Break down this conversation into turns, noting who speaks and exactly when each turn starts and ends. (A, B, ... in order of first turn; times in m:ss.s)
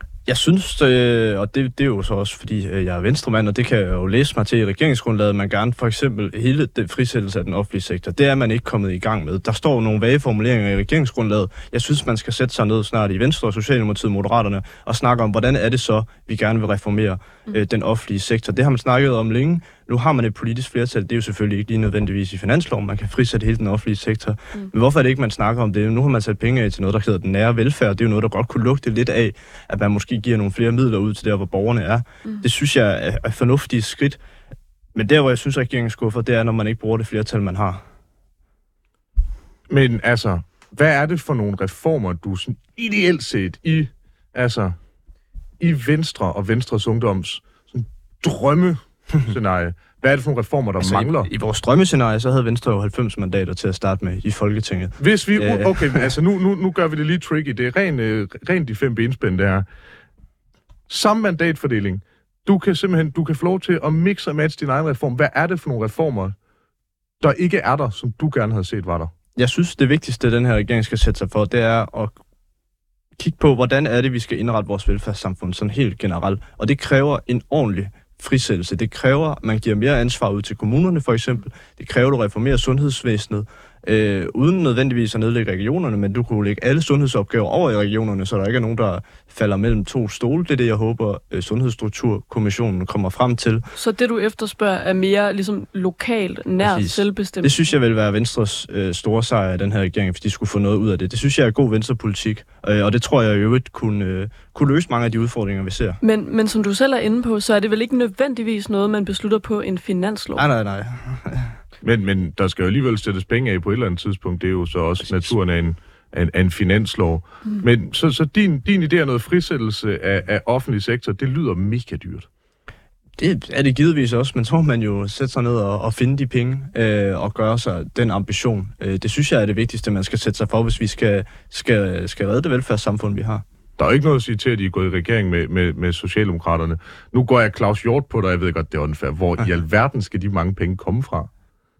0:00.2-0:34.2 A
0:34.9-0:37.8 A
0:39.7-0:44.8 B
0:45.6-0:51.3 B
0:50.8-0:56.1 A
0:55.0-0:59.6 B
1:00.9-1:06.3 B
1:07.2-1:09.1 B
1:09.4-1:12.2 A
1:13.2-1:33.7 A
1:33.7-1:37.7 C
1:36.6-1:46.0 A
1:46.0-1:50.4 C
1:50.4-1:51.6 A
1:51.8-2:02.3 B
1:55.1-1:55.3 A
2:03.2-2:13.4 A
2:13.8-2:21.3 B